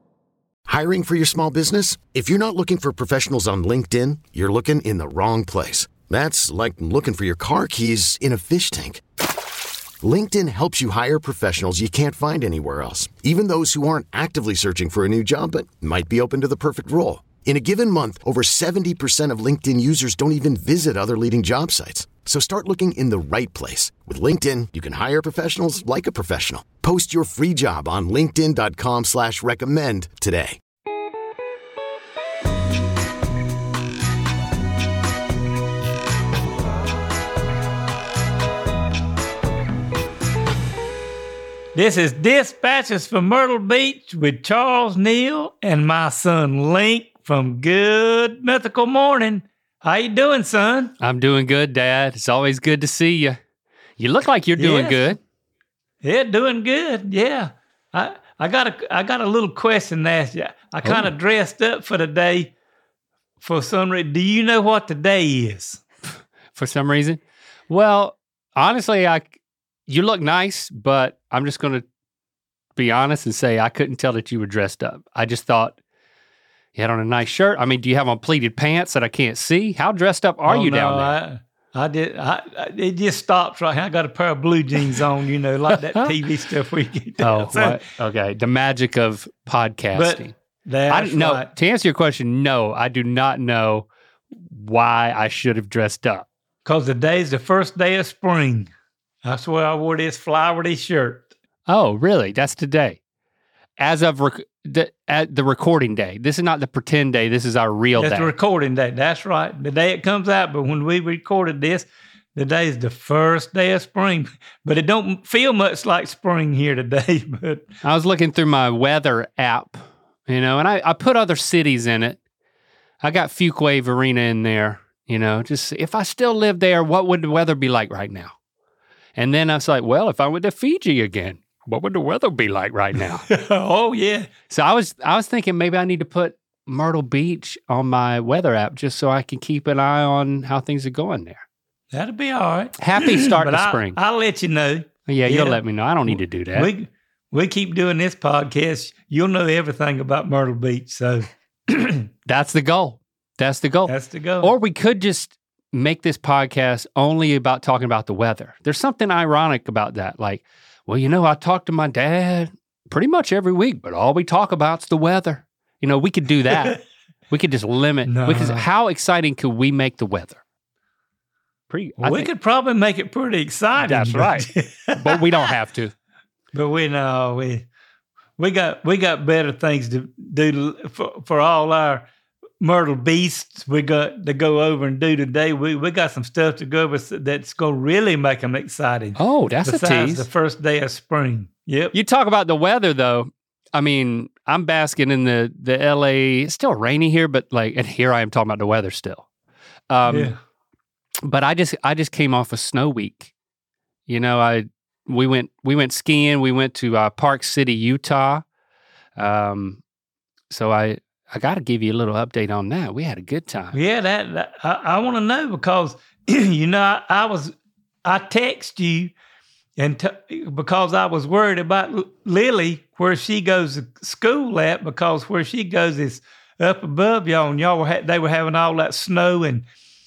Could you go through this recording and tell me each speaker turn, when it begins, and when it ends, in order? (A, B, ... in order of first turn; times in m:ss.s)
0:00.7-0:09.0 A
0:10.0-0:30.6 A
0:41.7-0:50.9 B
0:51.0-0:53.4 C
0:54.0-0:55.2 C
0:54.6-0:55.2 B
0:56.0-1:02.5 B
1:00.8-1:01.1 C
1:03.4-1:05.8 B
1:06.5-1:09.3 C
1:09.9-1:11.8 C
1:12.8-1:15.8 C
1:16.7-1:21.2 C
1:20.4-1:27.8 B
1:27.2-1:30.3 C
1:29.9-1:31.5 B
1:30.9-1:36.3 C
1:36.6-1:38.7 B
1:39.2-1:41.3 B
1:41.7-1:43.0 C
1:43.8-1:48.3 C
1:48.0-1:57.6 B
1:57.8-2:02.2 C
2:03.0-2:08.3 C
2:09.2-2:13.3 C
2:13.3-2:14.3 B
2:14.5-2:21.4 C
2:21.9-2:32.0 B
2:22.8-2:24.0 C
2:25.1-2:26.7 C
2:32.2-2:50.4 C
2:33.9-2:34.5 B
2:46.5-2:46.8 B
2:48.0-2:48.6 B
2:51.7-2:52.3 C
2:52.0-2:55.2 B
2:53.8-2:55.9 C
2:56.5-2:57.6 B
2:58.4-3:02.1 B
3:02.6-3:11.9 B
3:09.2-3:10.3 C
3:11.9-3:19.3 C
3:19.9-3:20.3 C
3:20.0-3:20.4 B
3:21.2-3:23.3 C
3:24.1-3:28.4 C
3:29.2-3:29.8 C
3:30.5-3:33.8 C
3:33.7-3:37.5 B
3:38.0-3:39.1 B
3:39.8-3:49.6 B